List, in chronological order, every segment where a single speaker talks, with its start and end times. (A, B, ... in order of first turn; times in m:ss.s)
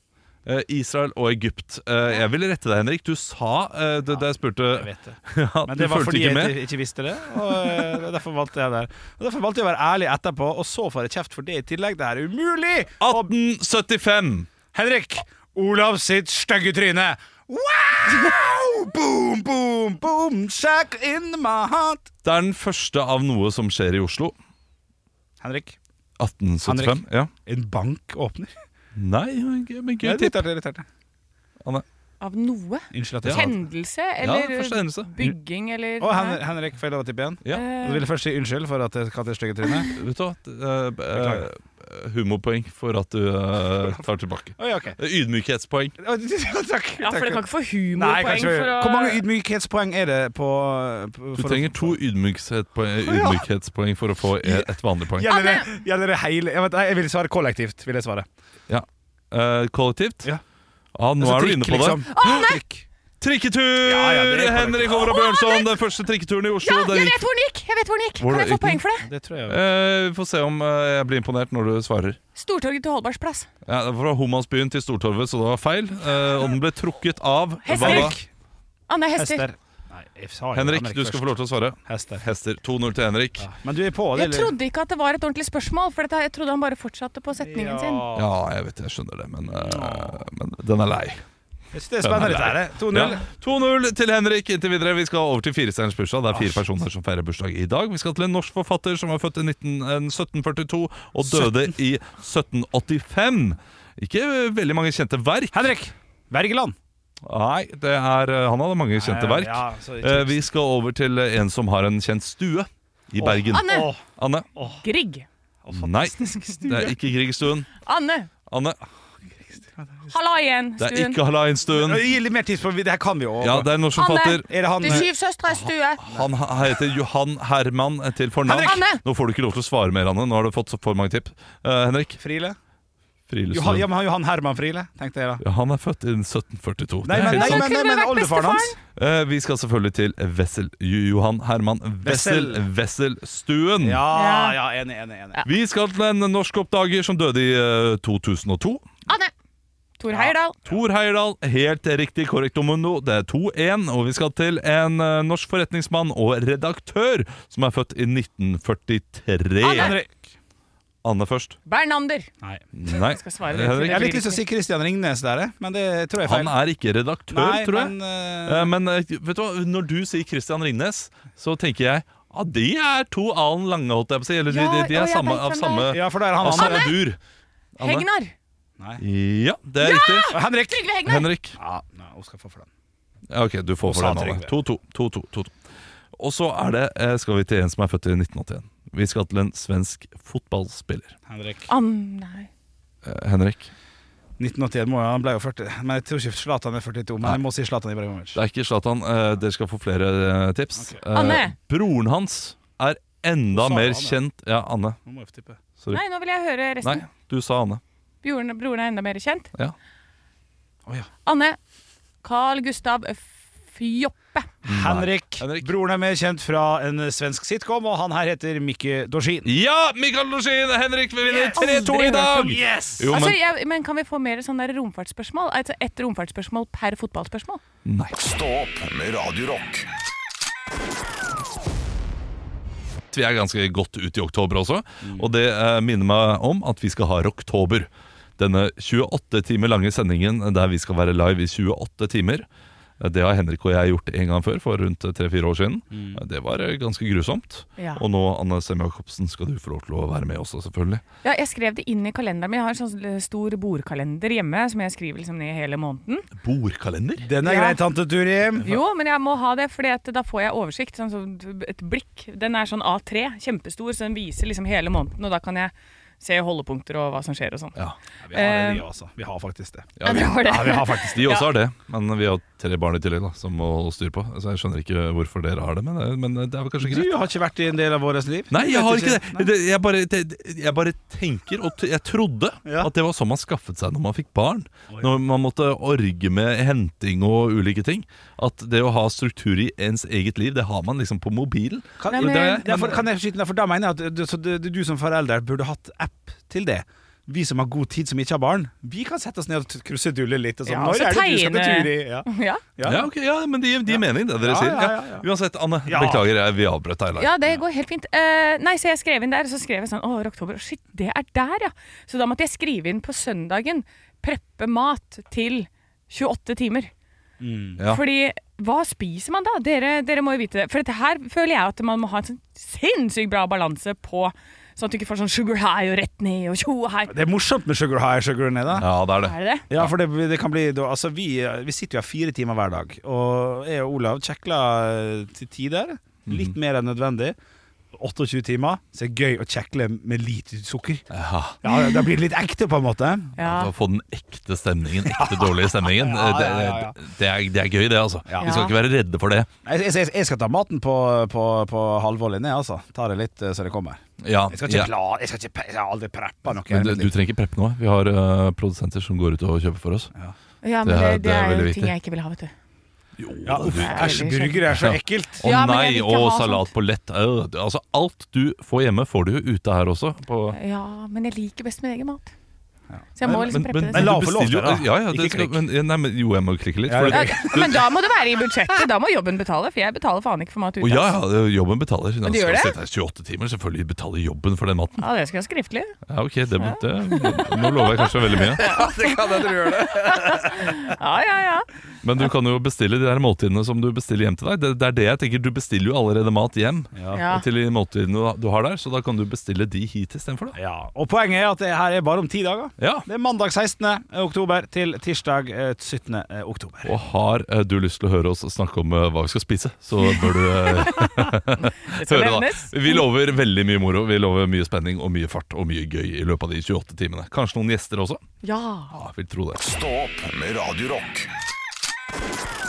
0:00.5-0:06.6 A
0:04.7-0:13.3 B
0:07.5-0:07.9 A
0:13.0-0:14.5 A
0:14.7-0:22.1 B
0:22.2-0:24.3 A
0:25.4-0:25.8 B
0:26.2-0:27.3 A
0:26.6-0:28.5 B
0:29.0-0:30.4 A
0:30.0-0:30.9 B
0:32.2-0:36.4 C
0:32.9-0:33.6 B
0:33.2-0:33.5 A
0:34.2-0:35.1 A
0:36.0-0:39.9 B
0:37.5-0:38.1 C
0:39.9-0:46.0 A
0:41.1-0:41.5 B
0:44.6-0:45.0 B
0:46.0-0:47.4 B
0:47.0-0:49.2 C
0:48.0-0:52.0 B
0:51.4-0:55.3 A
0:53.0-0:53.4 B
0:54.4-0:58.3 B
0:55.2-0:55.7 C
0:58.7-1:00.3 A
1:01.0-1:02.2 A
1:01.2-1:02.8 B
1:02.2-1:02.6 C
1:03.2-1:07.3 A
1:03.8-1:05.1 B
1:05.0-1:05.7 C
1:06.6-1:09.1 C
1:08.2-1:08.8 A
1:09.0-1:09.6 B
1:09.5-1:12.2 A
1:12.4-1:13.5 C
1:13.6-1:18.2 A
1:17.7-1:18.2 C
1:17.7-1:18.3 B
1:18.9-1:19.4 C
1:19.2-1:21.3 B
1:20.5-1:23.5 A
1:21.9-1:22.2 B
1:23.4-1:24.6 B
1:24.2-1:28.0 C
1:27.4-1:28.4 B
1:28.2-1:31.2 A
1:29.4-1:30.2 B
1:31.7-1:33.2 B
1:32.0-1:45.7 A
1:36.3-1:36.6 B
1:41.3-1:41.6 B
1:45.5-1:46.8 B
1:47.2-1:54.5 A
1:49.0-1:50.4 B
1:53.2-1:54.0 B
1:53.5-1:53.9 C
1:54.6-1:54.8 B
1:54.8-1:55.3 C
1:55.6-1:57.0 B
1:55.7-1:57.7 A
1:57.8-1:58.3 C
1:58.5-1:58.8 A
1:59.6-2:00.1 B
2:00.1-2:01.2 C
2:00.8-2:02.1 A
2:01.7-2:03.7 B
2:03.4-2:12.2 A
2:04.0-2:06.0 C
2:04.5-2:05.1 B
2:06.1-2:06.3 B
2:08.4-2:08.8 B
2:08.5-2:09.0 C
2:12.2-2:12.6 B
2:13.3-2:13.9 A
2:13.5-2:15.4 B
2:15.4-2:17.7 A
2:17.0-2:18.8 B
2:17.2-2:18.8 C
2:19.0-2:24.0 A
2:22.0-2:22.6 B
2:23.8-2:25.4 B
2:24.1-2:24.6 C
2:25.4-2:28.8 A
2:29.1-2:29.3 C
2:30.0-2:30.6 C
2:30.1-2:30.7 B
2:30.7-2:40.0 A
2:39.6-2:39.9 C
2:39.6-2:40.2 B
2:41.0-2:41.6 A
2:41.7-2:42.3 C
2:42.8-2:44.2 A
2:42.9-2:44.4 C
2:43.8-2:46.5 B
2:46.2-2:57.2 A
2:47.3-2:48.7 B
2:54.5-2:57.0 C
2:55.9-2:57.0 B
2:57.8-2:58.1 A
2:57.8-2:58.3 C
2:59.0-3:00.4 A
2:59.8-3:01.3 C
3:00.3-3:00.9 B
3:01.0-3:01.6 A
3:01.6-3:02.7 B
3:03.3-3:05.5 A
3:03.8-3:04.5 B
3:06.2-3:11.2 A
3:11.3-3:11.7 B
3:11.7-3:12.5 C
3:13.0-3:13.7 A
3:14.4-3:18.4 B
3:18.4-3:25.0 A
3:21.1-3:21.5 C
3:23.5-3:24.2 B
3:25.0-3:25.6 B
3:25.9-3:27.1 C
3:26.8-3:27.8 A
3:28.2-3:29.5 C
3:31.2-3:31.6 C
3:32.2-3:34.5 C
3:34.6-3:39.5 B
3:34.6-3:35.7 A
3:39.4-3:43.4 A
3:41.3-3:43.1 B
3:41.4-3:42.3 C
3:43.1-3:47.6 C
3:47.8-3:48.1 A
3:48.1-3:49.9 D
3:53.1-4:02.5 A
3:55.0-3:55.3 B
4:03.0-4:11.0 A
4:05.9-4:06.2 B
4:07.8-4:08.0 C
4:11.2-4:16.3 C
4:16.4-4:17.3 A
4:17.2-4:18.8 B
4:17.4-4:17.8 C
4:18.6-4:27.7 C
4:28.2-4:31.3 B
4:28.3-4:28.8 C
4:30.0-4:37.1 A
4:30.0-4:31.5 C
4:36.8-4:39.5 B
4:38.5-4:53.0 A
4:52.0-5:03.1 B
4:52.1-4:52.7 C
5:00.7-5:02.6 C
5:02.8-5:07.3 A
5:03.9-5:05.3 B
5:05.9-5:06.3 B
5:07.2-5:16.9 C
5:17.4-5:17.8 B
5:17.8-5:18.0 A
5:17.9-5:27.1 C
5:27.1-5:28.9 B
5:28.8-5:29.9 A
5:29.2-5:29.6 C
5:29.7-5:37.4 B
5:36.3-5:36.5 A
5:37.9-5:41.1 B
5:41.1-5:41.6 A
5:41.6-5:43.4 B
5:41.7-5:42.0 C
5:43.4-5:43.7 C
5:43.4-5:49.5 A
5:45.0-5:47.0 B
5:48.3-5:48.6 B
5:48.4-5:48.8 C
5:49.6-5:57.1 B
5:54.2-5:54.9 A
5:56.5-6:00.1 A
6:00.6-6:02.5 C
6:00.8-6:01.9 A
6:03.2-6:10.6 A
6:03.4-6:05.5 B
6:03.7-6:04.6 C
6:05.4-6:06.7 C
6:10.5-6:12.3 C
6:12.9-6:15.6 B
6:13.2-6:14.1 C
6:13.2-6:17.8 A
6:16.9-6:17.8 B
6:17.1-6:21.1 C
6:20.8-6:25.1 A
6:22.2-6:22.7 C
6:25.0-6:26.0 C
6:26.1-6:28.8 A
6:26.6-6:31.7 C
6:28.6-6:30.8 B
6:32.0-6:40.6 A
6:37.0-6:37.2 B
6:37.1-6:37.4 C
6:40.5-6:46.9 B
6:42.8-6:43.1 A
6:46.8-6:58.2 A
6:50.0-6:53.0 C
6:58.4-6:58.9 C
6:58.9-6:59.6 A
6:59.6-7:01.3 D